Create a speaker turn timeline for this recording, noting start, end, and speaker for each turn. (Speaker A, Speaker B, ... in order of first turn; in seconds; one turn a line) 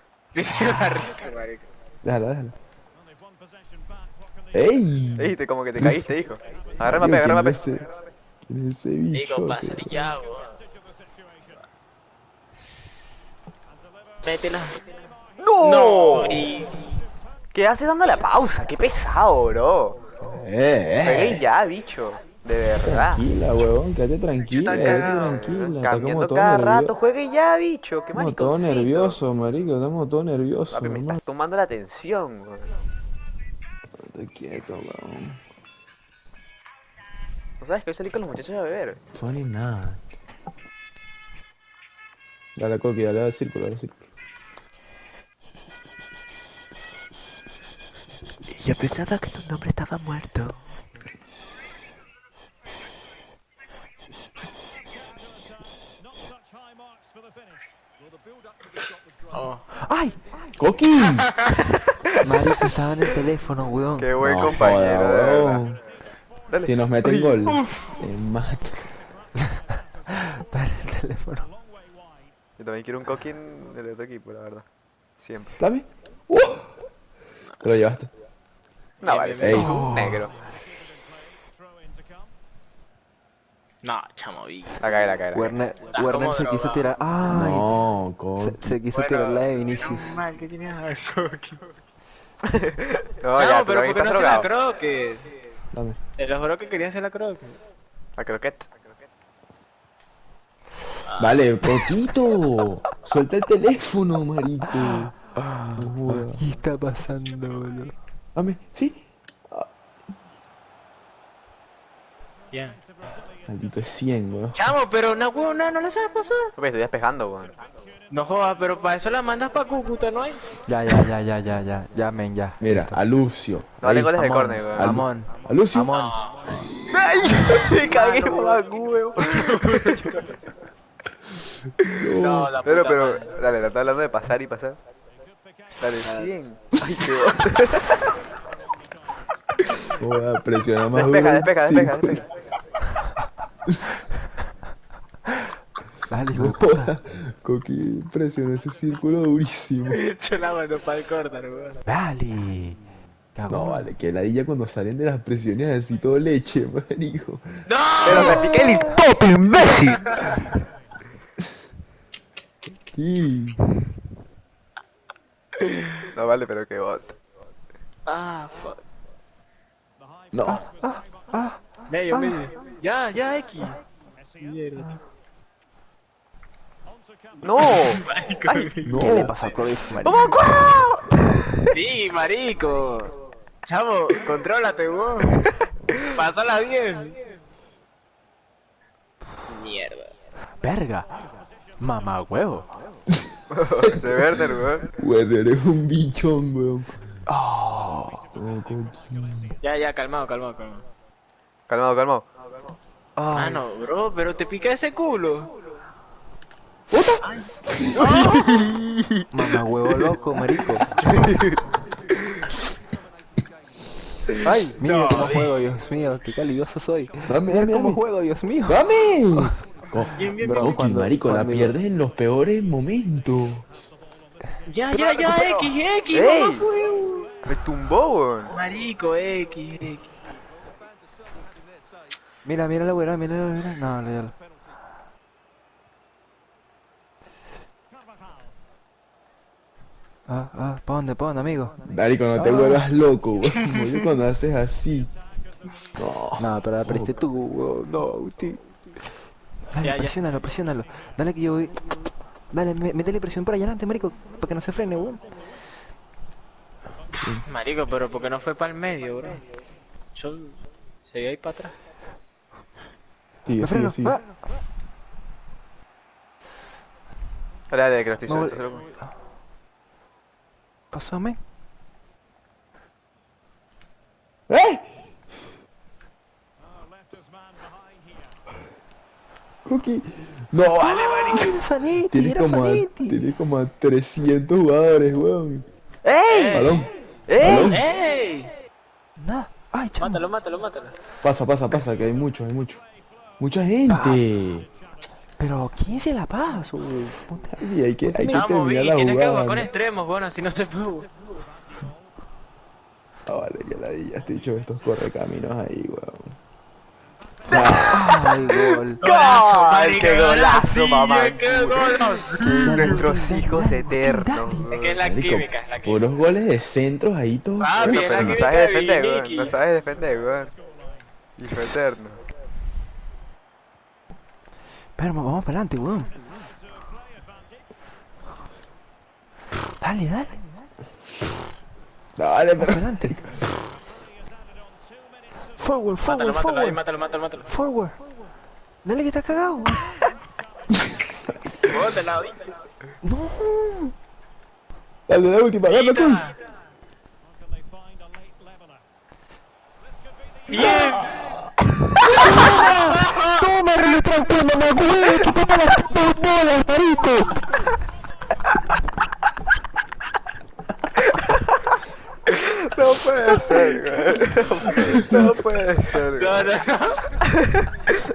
Speaker A: 0.3-1.7
Speaker B: 2.0-2.5
Speaker B: 4.5-6.1
Speaker C: 5.2-7.6
Speaker B: 6.8-7.9
Speaker B: 8.4-10.0
Speaker A: 9.1-10.6
Speaker A: 14.2-14.8
Speaker C: 15.4-16.5
Speaker A: 15.6-16.9
Speaker C: 17.5-20.0
Speaker B: 20.2-21.4
Speaker C: 21.0-23.2
Speaker B: 22.8-26.9
Speaker A: 24.4-25.4
Speaker C: 24.7-29.2
Speaker B: 28.1-31.2
Speaker C: 30.7-32.8
Speaker B: 34.0-35.4
Speaker C: 37.6-39.0
Speaker B: 39.1-40.0
Speaker B: 42.6-44.0
Speaker D: 48.4-50.7
Speaker A: 59.3-59.6
Speaker D: 59.7-60.2
Speaker B: 60.6-61.3
Speaker D: 62.2-64.4
Speaker C: 64.0-65.6
Speaker B: 64.2-65.8
Speaker C: 66.5-67.5
Speaker B: 66.6-68.9
Speaker A: 67.5-68.0
Speaker D: 70.1-71.5
Speaker C: 72.6-74.6
Speaker C: 75.2-75.6
Speaker B: 75.6-76.8
Speaker B: 77.6-78.1
Speaker C: 79.0-80.3
Speaker A: 79.0-79.8
Speaker B: 79.4-80.2
Speaker D: 79.5-80.3
Speaker A: 83.8-85.0
Speaker C: 84.8-85.5
Speaker D: 85.3-87.8
Speaker A: 85.9-86.9
Speaker B: 87.3-88.8
Speaker D: 88.4-90.2
Speaker A: 88.9-91.7
Speaker C: 92.4-94.5
Speaker A: 93.3-95.3
Speaker B: 95.7-96.0
Speaker A: 96.2-97.6
Speaker C: 98.2-98.7
Speaker A: 101.1-101.4
Speaker B: 101.2-105.2
Speaker D: 104.7-107.9
Speaker B: 105.7-106.4
Speaker B: 108.3-109.7
Speaker A: 112.5-112.8
Speaker B: 113.5-114.6
Speaker A: 114.5-116.5
Speaker C: 116.6-117.5
Speaker A: 118.1-120.4
Speaker D: 120.7-123.0
Speaker B: 122.6-125.9
Speaker C: 123.8-125.0
Speaker D: 124.1-126.1
Speaker A: 125.9-126.5
Speaker B: 126.5-126.8
Speaker C: 126.9-130.2
Speaker A: 127.2-128.7
Speaker A: 129.2-130.2
Speaker B: 131.9-132.5
Speaker C: 132.1-134.8
Speaker A: 132.2-133.3
Speaker C: 135.8-138.2
Speaker A: 136.0-136.3
Speaker B: 140.0-142.2
Speaker C: 140.9-142.3
Speaker D: 146.1-146.9
Speaker B: 146.3-150.0
Speaker A: 149.9-151.8
Speaker D: 151.8-152.8
Speaker D: 153.3-153.8
Speaker B: 153.5-157.7
Speaker A: 157.7-158.8
Speaker C: 158.0-160.2
Speaker D: 158.1-160.1
Speaker A: 160.1-160.4
Speaker B: 162.9-163.6
Speaker C: 166.1-167.2
Speaker A: 168.1-168.8
Speaker B: 170.3-170.7
Speaker D: 170.8-172.4
Speaker A: 171.9-173.8
Speaker A: 174.4-175.0
Speaker C: 177.4-178.7
Speaker A: 177.5-179.6
Speaker B: 178.8-179.3
Speaker D: 179.0-180.7
Speaker C: 180.0-181.7
Speaker A: 181.7-183.1
Speaker A: 183.6-185.4
Speaker A: 186.1-187.2
Speaker A: 189.5-190.1
Speaker D: 190.6-193.0
Speaker C: 193.5-194.9
Speaker B: 194.9-196.9
Speaker D: 197.3-198.3
Speaker B: 198.3-199.6
Speaker A: 199.6-200.8
Speaker C: 201.7-202.3
Speaker C: 203.2-203.6
Speaker A: 203.3-205.5
Speaker B: 206.9-208.4
Speaker A: 207.2-208.6
Speaker C: 208.2-208.7
Speaker D: 209.3-210.9
Speaker C: 211.0-211.6
Speaker C: 214.4-214.7
Speaker D: 214.4-219.6
Speaker A: 214.8-215.5
Speaker B: 217.3-218.0
Speaker B: 218.7-223.7
Speaker A: 220.1-220.8
Speaker D: 220.4-221.7
Speaker A: 224.7-227.3
Speaker D: 225.3-225.6
Speaker C: 226.1-226.7
Speaker C: 227.4-228.5
Speaker A: 228.5-230.2
Speaker D: 232.4-234.3
Speaker D: 240.3-241.8
Speaker B: 241.9-245.1
Speaker D: 242.3-242.8
Speaker B: 246.0-247.1
Speaker D: 246.4-248.6
Speaker D: 249.7-255.3
Speaker A: 249.8-250.2
Speaker B: 257.2-257.4
Speaker A: 257.5-259.4
Speaker A: 260.1-261.7
Speaker B: 263.4-264.2
Speaker D: 263.6-264.3
Speaker C: 267.7-268.8
Speaker D: 268.3-268.6
Speaker D: 270.9-271.4
Speaker B: 274.5-274.9
Speaker B: 279.6-285.7
Speaker D: 280.8-283.3
Speaker C: 286.0-287.7
Speaker A: 286.3-286.9
Speaker B: 286.5-287.9
Speaker A: 287.5-288.5
Speaker D: 289.2-290.2
Speaker A: 290.0-290.9
Speaker B: 291.2-292.8
Speaker B: 293.4-294.7
Speaker D: 293.9-294.2
Speaker D: 295.4-298.4
Speaker B: 297.5-299.7
Speaker A: 298.3-301.1
Speaker B: 303.2-306.4
Speaker B: 307.5-308.1
Speaker C: 307.5-315.0
Speaker D: 307.9-309.0
Speaker A: 309.0-313.0
Speaker D: 312.6-314.7
Speaker A: 314.7-316.1
Speaker B: 315.0-318.4
Speaker A: 317.6-319.6
Speaker C: 317.8-320.5
Speaker C: 321.4-322.2
Speaker D: 324.9-326.1
Speaker D: 329.8-330.7
Speaker B: 332.1-333.5
Speaker D: 332.6-333.2
Speaker D: 335.6-336.8
Speaker A: 336.0-337.5
Speaker D: 337.4-337.9
Speaker D: 338.8-340.0
Speaker A: 341.6-342.6
Speaker D: 343.0-343.9
Speaker B: 345.1-346.3
Speaker A: 345.7-346.4
Speaker A: 350.5-351.3
Speaker B: 350.5-351.4
Speaker A: 352.2-353.4
Speaker D: 352.3-357.3
Speaker C: 361.1-361.6
Speaker C: 362.3-366.5
Speaker A: 366.0-367.1
Speaker C: 367.4-367.7